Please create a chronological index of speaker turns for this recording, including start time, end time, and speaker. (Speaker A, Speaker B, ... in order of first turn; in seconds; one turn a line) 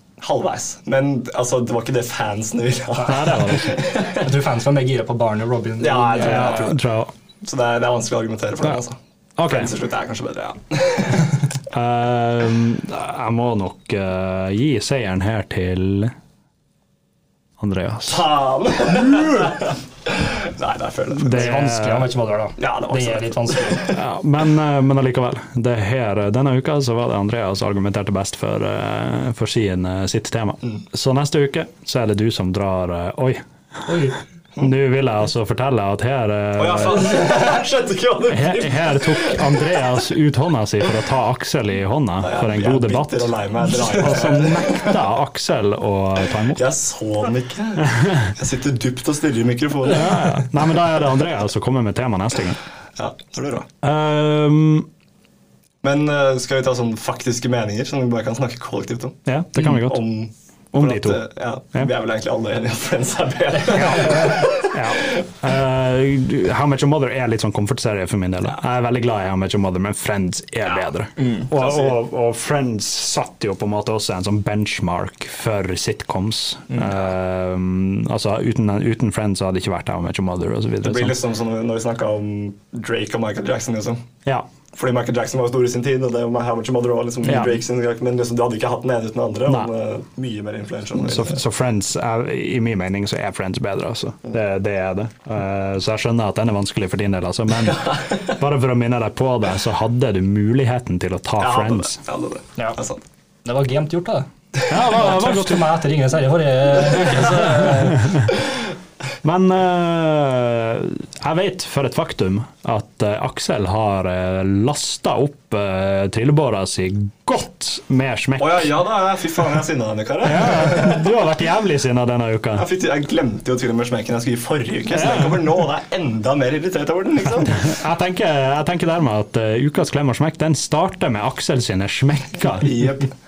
Speaker A: 0.2-4.3
Speaker B: 3.0-3.3
Speaker C: 3.0-3.8
Speaker B: 4.1-6.7
Speaker A: 5.8-6.8
Speaker C: 6.2-7.1
Speaker A: 7.4-11.5
Speaker C: 9.4-9.7
Speaker C: 11.7-16.1
Speaker C: 17.6-18.2
Speaker A: 18.0-21.6
Speaker C: 21.2-22.1
Speaker B: 21.2-23.8
Speaker A: 22.6-24.0
Speaker C: 23.9-33.4
Speaker B: 33.9-34.2
Speaker C: 34.6-37.2
Speaker A: 36.5-39.8
Speaker C: 38.3-43.3
Speaker A: 42.2-45.0
Speaker C: 43.9-46.6
Speaker A: 46.5-50.4
Speaker C: 47.9-48.3
Speaker C: 49.9-52.6
Speaker A: 53.0-53.7
Speaker C: 53.8-54.9
Speaker A: 55.8-65.2
Speaker C: 59.3-60.0
Speaker C: 60.7-61.2
Speaker C: 63.8-81.2
Speaker B: 71.2-71.5
Speaker A: 71.5-72.0
Speaker A: 80.8-84.0
Speaker A: 84.7-91.4
Speaker C: 87.2-87.6
Speaker C: 91.0-102.0
Speaker A: 101.4-103.0
Speaker B: 103.4-108.2
Speaker C: 104.7-105.7
Speaker C: 107.1-108.3
Speaker C: 109.2-118.7
Speaker A: 118.4-121.1
Speaker C: 120.2-122.7
Speaker A: 122.5-127.7
Speaker C: 124.9-125.7
Speaker C: 127.4-132.7
Speaker A: 132.5-133.1